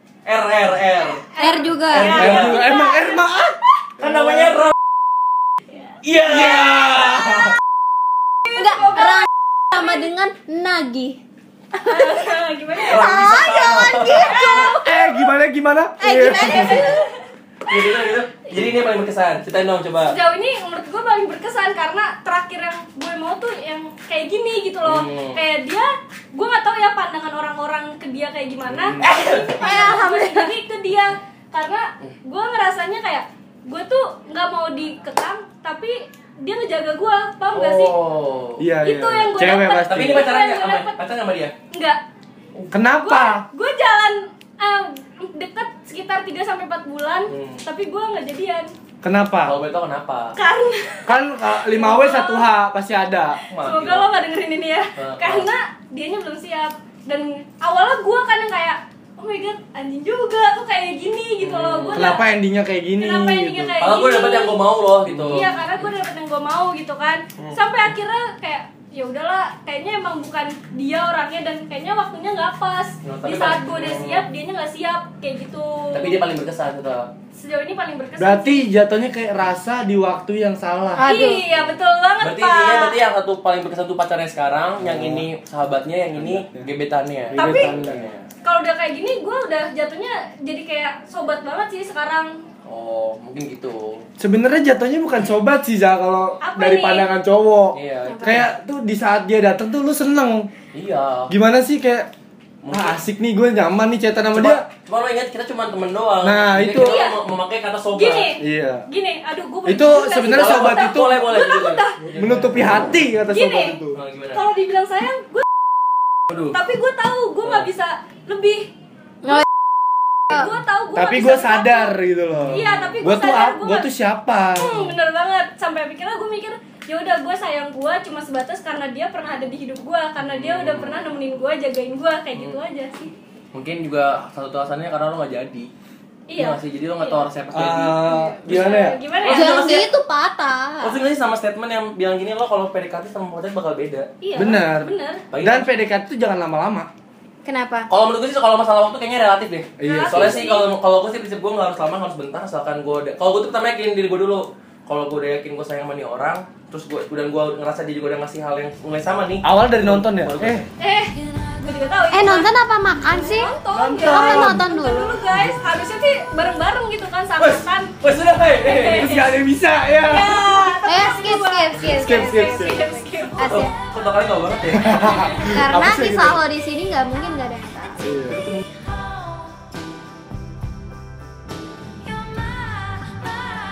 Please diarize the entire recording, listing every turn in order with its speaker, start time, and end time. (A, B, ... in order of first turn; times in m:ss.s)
0:00.2-0:01.2 A
0:01.2-0:03.2 B
0:01.4-0:02.8 C
0:01.9-0:02.7 A
0:02.0-0:04.6 D
0:04.0-0:04.7 A
0:06.0-0:07.1 A
0:06.2-0:07.6 D
0:08.5-0:09.2 B
0:08.5-0:11.2 C
0:11.7-0:14.8 C
0:11.8-0:15.3 B
0:12.8-0:14.5 A
0:14.8-0:16.9 D
0:16.0-0:17.0 C
0:16.2-0:17.2 B
0:17.7-0:20.2 A
0:20.1-0:37.9 B
0:24.8-0:25.4 A
0:28.7-0:29.1 D
0:29.0-0:29.8 A
0:29.6-0:30.5 C
0:37.5-0:38.6 A
0:38.6-0:40.3 D
0:38.8-0:41.0 B
0:39.9-0:41.6 A
0:41.7-0:42.0 B
0:42.7-0:43.4 D
0:42.9-0:48.7 B
0:47.3-0:47.6 A
0:49.0-0:49.6 D
0:49.4-0:50.4 A
0:50.4-0:52.5 B
0:51.1-0:53.4 D
0:53.5-0:54.1 A
0:53.6-1:02.2 B
0:55.0-0:55.5 A
1:01.4-1:02.2 A
1:01.9-1:03.8 D
1:03.0-1:04.5 B
1:03.8-1:05.9 A
1:05.3-1:16.2 B
1:13.0-1:14.3 A
1:15.9-1:17.1 A
1:17.4-1:18.6 B
1:18.2-1:21.0 D
1:20.9-1:21.4 C
1:21.1-1:23.0 B
1:21.5-1:28.3 A
1:24.8-1:25.3 D
1:26.2-1:26.7 D
1:27.3-1:28.1 D
1:27.4-1:27.7 B
1:28.4-1:32.4 B
1:32.6-1:34.1 A
1:34.2-1:40.5 D
1:36.4-1:37.1 B
1:37.7-1:38.5 A
1:38.1-1:38.4 C
1:40.7-1:41.3 A
1:41.3-1:42.1 D
1:42.6-1:43.0 A
1:42.7-1:44.6 D
1:44.3-1:48.3 A
1:46.2-1:47.0 D
1:46.8-1:47.2 B
1:48.0-1:52.0 B
1:48.4-1:48.8 D
1:49.6-1:51.2 D
1:50.3-1:52.6 A
1:52.1-1:54.0 D
1:53.3-1:53.8 B
1:53.9-1:54.4 A
1:54.3-1:55.5 B
1:56.3-1:56.6 A
1:56.5-1:58.7 B
2:00.3-2:02.0 B
2:00.9-2:04.9 D
2:02.5-2:03.9 B
2:02.6-2:02.9 A
2:04.6-2:13.1 B
2:10.2-2:11.0 A
2:13.5-2:15.7 A
2:16.3-2:17.2 B
2:16.4-2:18.1 A
2:17.5-2:19.0 D
2:18.0-2:19.8 B
2:19.2-2:19.9 A
2:19.3-2:21.0 C
2:20.8-2:24.1 A
2:24.2-2:25.2 B
2:24.4-2:26.9 D
2:25.3-2:25.7 A
2:27.4-2:27.9 C
2:27.9-2:40.6 A
2:29.8-2:30.4 D
2:29.8-2:30.7 B
2:39.4-2:40.6 D
2:40.8-2:42.5 B
2:42.1-2:43.5 C
2:43.0-2:49.4 B
2:43.7-2:44.6 D
2:44.0-2:45.2 C
2:47.4-2:49.1 A
2:48.8-2:50.6 D
2:50.0-2:55.6 B
2:50.8-2:53.7 C
2:51.8-2:52.9 D
2:53.4-2:55.3 A
2:54.7-2:56.4 D
2:55.5-2:58.2 C
2:58.0-2:58.4 D
2:58.3-2:58.6 A
3:02.9-3:03.3 B